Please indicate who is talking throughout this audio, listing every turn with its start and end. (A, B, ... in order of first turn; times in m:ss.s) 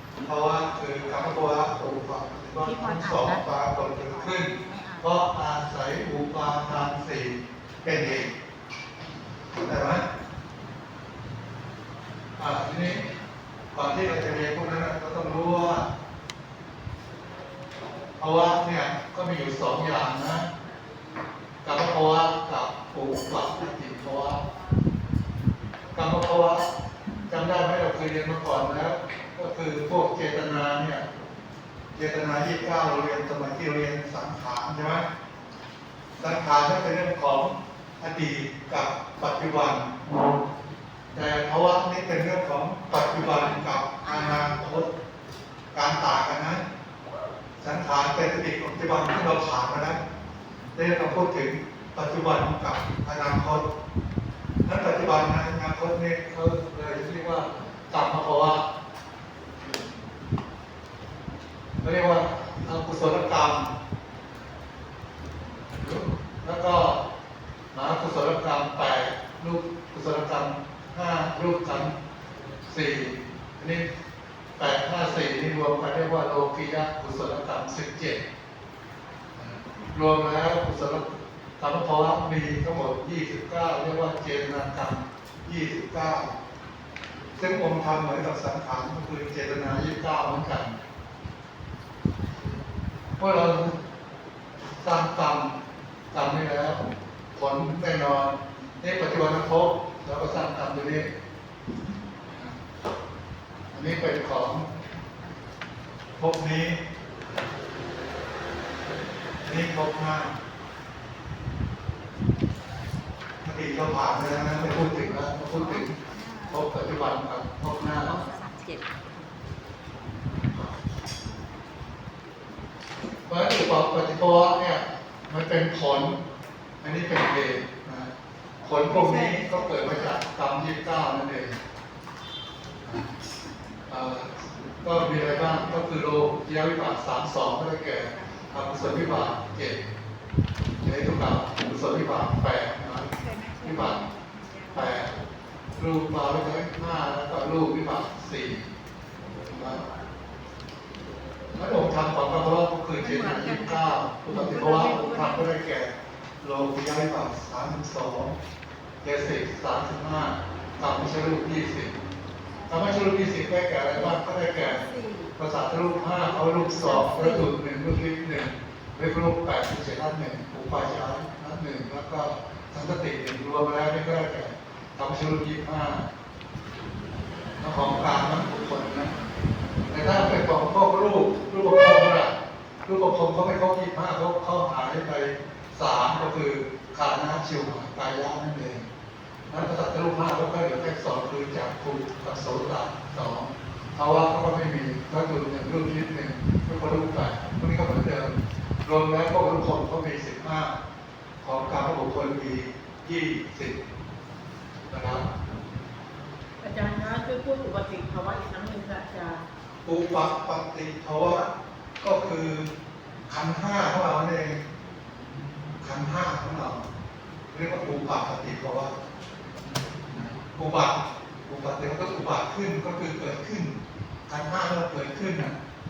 0:00.2-0:08.3 A
0:02.6-0:05.0 B
0:09.5-0:10.1 A
0:12.4-0:13.1 A
0:13.7-0:15.9 A
0:18.2-0:20.5 A
0:21.6-0:24.4 A
0:26.0-0:26.7 A
0:27.3-0:31.0 A
0:32.0-0:35.1 A
0:36.2-0:40.0 A
0:41.1-0:44.9 A
0:45.7-0:46.6 A
0:47.6-0:50.0 A
0:50.8-0:53.7 A
0:54.7-0:58.7 A
1:01.8-1:03.8 A
1:05.7-1:07.0 A
1:07.7-1:12.0 A
1:12.7-1:13.9 A
1:14.6-1:18.2 A
1:19.4-1:26.4 A
1:27.4-1:30.8 A
1:33.2-1:33.8 A
1:34.8-1:35.6 A
1:36.1-1:36.8 A
1:37.3-1:41.1 A
1:42.3-1:42.6 A
1:43.7-1:44.7 A
1:46.2-1:46.8 A
1:49.4-1:50.3 A
1:53.4-1:58.2 A
1:56.1-1:56.5 B
1:58.1-1:58.8 B
2:03.3-2:06.2 A
2:06.8-2:08.1 A
2:08.6-2:11.6 A
2:08.9-2:10.2 B
2:12.8-2:13.1 A
2:13.9-2:19.8 A
2:20.8-2:23.1 A
2:23.2-2:24.8 B
2:23.6-2:24.0 A
2:24.7-2:25.1 A
2:25.8-2:28.7 A
2:29.5-2:29.8 A
2:31.6-2:38.4 A
2:33.0-2:35.2 B
2:39.0-2:42.0 A
2:42.7-2:44.8 A
2:44.8-2:45.3 B
2:45.4-2:56.1 A
2:47.0-2:47.5 B
2:57.6-2:59.1 A
2:59.9-3:02.3 A
3:02.9-3:08.9 A
3:09.5-3:20.7 A
3:21.4-3:23.8 A
3:24.9-3:25.3 A
3:26.6-3:29.4 C
3:29.8-3:32.7 A
3:33.3-3:34.6 A
3:35.8-3:36.9 A
3:37.5-3:38.9 A
3:40.1-3:45.6 A